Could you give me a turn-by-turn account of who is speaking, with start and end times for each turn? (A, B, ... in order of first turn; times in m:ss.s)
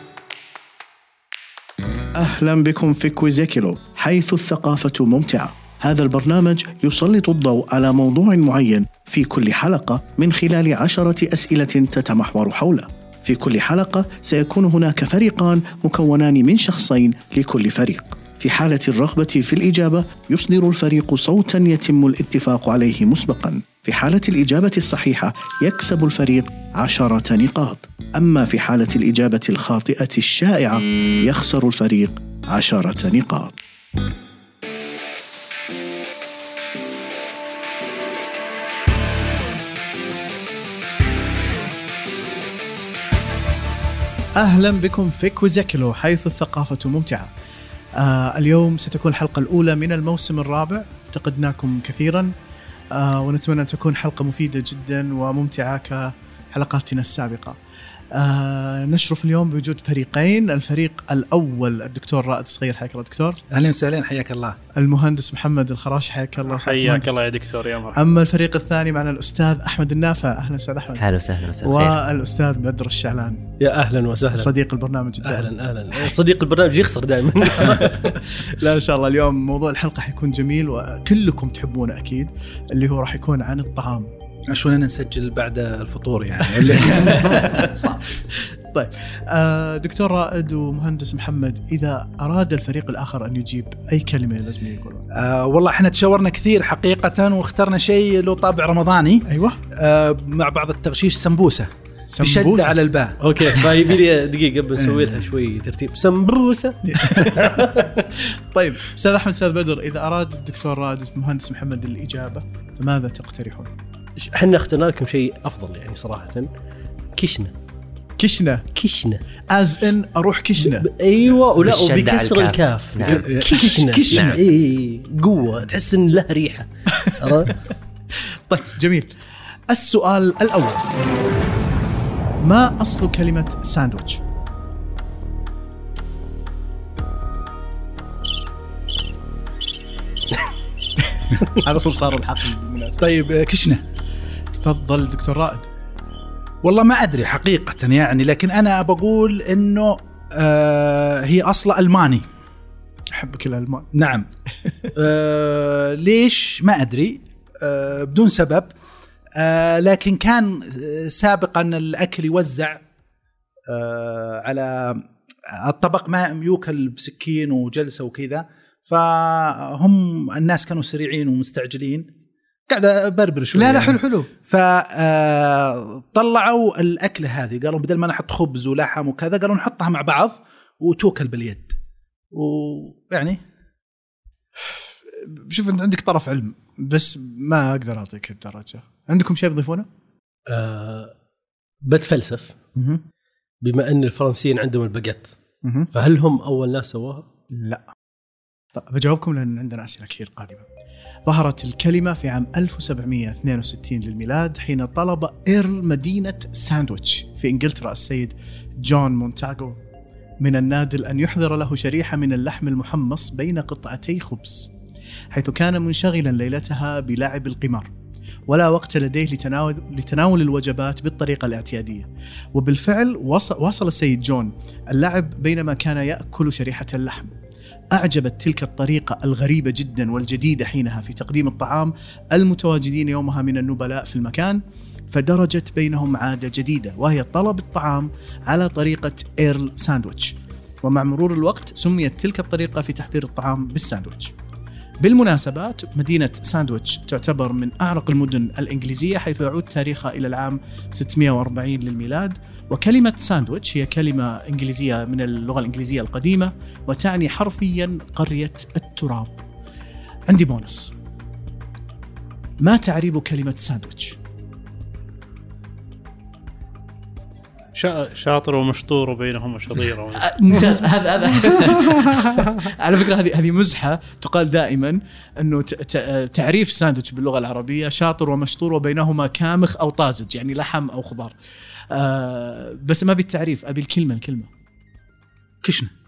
0:02.2-0:33.6 A
0:44.4-0:47.3 A
0:48.0-0:52.3 A
0:52.9-0:57.6 A
0:58.1-1:03.4 A
1:03.5-1:04.6 B
1:04.8-1:07.2 A
1:06.5-1:08.0 C
1:07.9-1:11.1 A
1:11.0-1:12.0 D
1:11.6-1:13.4 A
1:13.6-1:14.5 E
1:14.3-1:16.1 A
1:15.2-1:18.4 E
1:17.6-1:24.1 A
1:24.5-1:27.8 B
1:26.4-1:35.1 A
1:35.1-1:43.9 B
1:39.2-1:39.6 A
1:42.1-1:42.8 A
1:43.2-1:48.0 E
1:44.8-1:45.2 B
1:46.9-1:47.5 B
1:47.8-1:53.7 A
1:54.2-1:56.5 E
1:57.1-1:57.5 E
1:58.2-1:58.7 A
1:58.7-1:59.2 E
1:59.5-2:00.9 A
2:00.6-2:07.6 E
2:01.6-2:03.4 D
2:03.4-2:04.2 A
2:03.9-2:04.2 B
2:04.1-2:04.4 D
2:07.0-2:07.6 A
2:08.3-2:09.1 A
2:09.7-2:10.9 A
2:12.4-2:14.2 A
2:21.0-2:23.1 A
2:23.0-2:23.8 B
2:24.5-2:25.7 A
2:26.6-2:32.2 B
2:33.1-2:33.9 A
2:33.9-2:34.3 B
2:34.6-2:34.9 A
2:34.9-2:38.7 B
2:39.4-2:42.8 B
2:43.7-2:52.1 B
2:52.7-3:01.8 B
2:53.5-2:54.3 A
3:02.3-3:03.4 B
3:04.7-3:09.9 A
3:10.5-3:11.1 E
3:11.8-3:12.6 E
3:12.7-3:13.0 A
3:13.6-3:15.4 E
3:15.6-3:15.9 A
3:15.9-3:17.2 E
3:17.5-3:17.8 A
3:18.7-3:20.7 A
3:21.3-3:29.8 A
3:30.4-3:34.7 A
3:35.3-3:37.9 A
3:38.5-3:47.3 A
3:47.9-3:54.6 A
3:55.1-4:04.3 A
4:05.0-4:19.4 A
4:20.3-4:20.9 A
4:22.6-4:24.2 A
4:27.8-4:30.8 C
4:30.2-4:41.4 A
4:31.5-4:32.5 C
4:41.9-4:44.5 A
4:45.6-4:45.9 B